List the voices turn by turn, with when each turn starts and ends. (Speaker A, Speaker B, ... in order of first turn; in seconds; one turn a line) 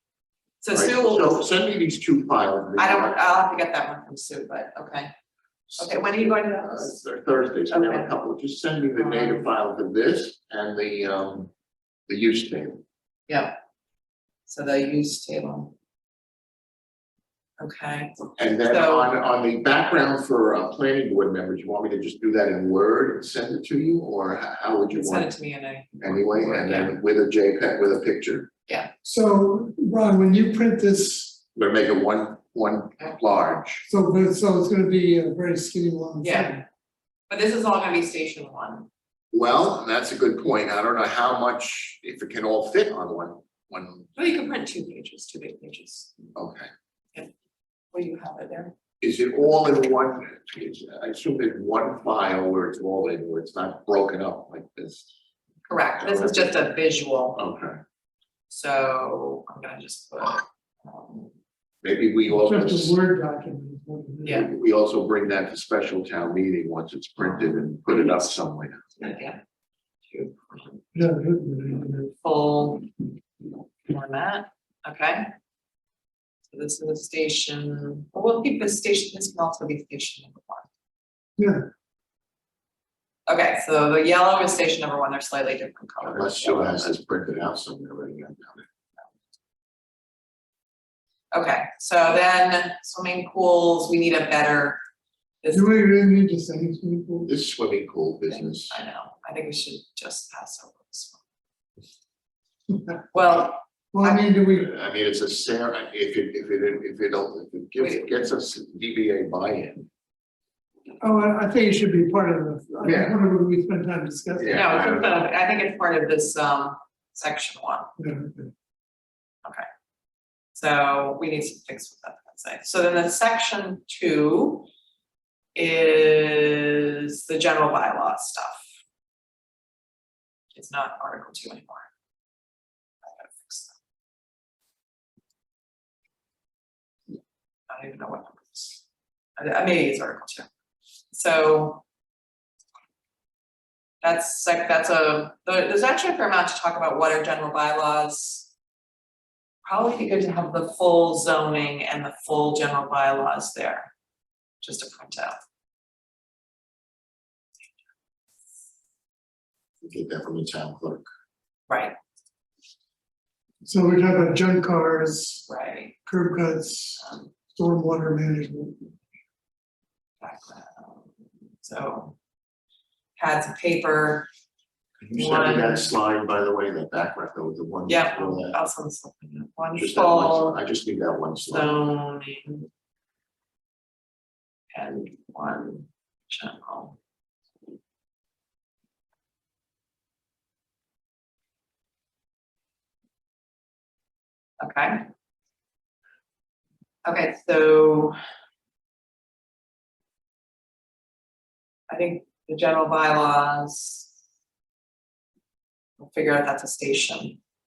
Speaker A: 0.6-1.5
Speaker B: 0.7-3.2
Speaker A: 2.8-5.1
Speaker B: 5.7-11.5
Speaker A: 5.8-7.0
Speaker A: 7.7-8.2
Speaker A: 9.0-9.5
Speaker B: 12.1-12.8
Speaker A: 13.3-13.6
Speaker A: 14.5-15.7
Speaker A: 17.6-19.1
Speaker B: 18.4-25.3
Speaker A: 24.9-27.0
Speaker B: 26.0-28.5
Speaker C: 29.0-31.4
Speaker B: 31.6-33.9
Speaker C: 33.9-36.6
Speaker A: 36.2-36.6
Speaker A: 37.3-38.9
Speaker B: 39.3-44.1
Speaker A: 44.2-46.1
Speaker B: 46.4-46.7
Speaker A: 47.9-48.7
Speaker B: 49.0-55.0
Speaker A: 55.7-57.4
Speaker B: 56.0-56.5
Speaker B: 57.4-57.8
Speaker A: 58.5-61.3
Speaker B: 61.8-63.0
Speaker C: 62.3-64.5
Speaker B: 64.3-68.9
Speaker A: 69.0-69.4
Speaker A: 70.1-70.8
Speaker C: 70.9-72.1
Speaker A: 72.0-72.9
Speaker A: 73.8-75.3
Speaker A: 76.5-80.7
Speaker C: 81.4-81.7
Speaker A: 83.3-87.0
Speaker B: 86.0-88.7
Speaker A: 91.3-94.8
Speaker A: 95.4-95.7
Speaker C: 95.5-97.3
Speaker B: 97.3-98.8
Speaker A: 98.3-101.2
Speaker A: 103.1-104.2
Speaker C: 103.9-104.7
Speaker B: 104.5-109.9
Speaker A: 107.8-108.2
Speaker C: 111.0-114.9
Speaker B: 112.8-113.2
Speaker B: 114.4-115.2
Speaker A: 114.5-117.9
Speaker C: 118.0-118.5
Speaker A: 120.5-124.7
Speaker A: 125.5-128.7
Speaker A: 130.5-131.9
Speaker A: 133.1-133.8
Speaker A: 137.7-138.8
Speaker A: 139.4-140.5
Speaker A: 141.1-141.8
Speaker A: 144.0-148.5
Speaker A: 149.6-153.9
Speaker A: 154.6-155.4
Speaker B: 159.8-161.1
Speaker A: 161.7-162.0
Speaker C: 163.7-165.5
Speaker A: 165.5-166.0
Speaker C: 166.1-167.0
Speaker A: 167.0-167.3
Speaker C: 167.5-168.9
Speaker A: 170.2-172.2
Speaker A: 173.2-174.3
Speaker B: 175.0-178.6
Speaker A: 175.1-175.9
Speaker A: 177.9-180.6
Speaker B: 179.8-181.7
Speaker A: 181.5-182.7
Speaker A: 184.7-187.0
Speaker A: 194.6-195.1
Speaker A: 197.1-198.2
Speaker A: 201.9-204.1
Speaker A: 206.0-207.4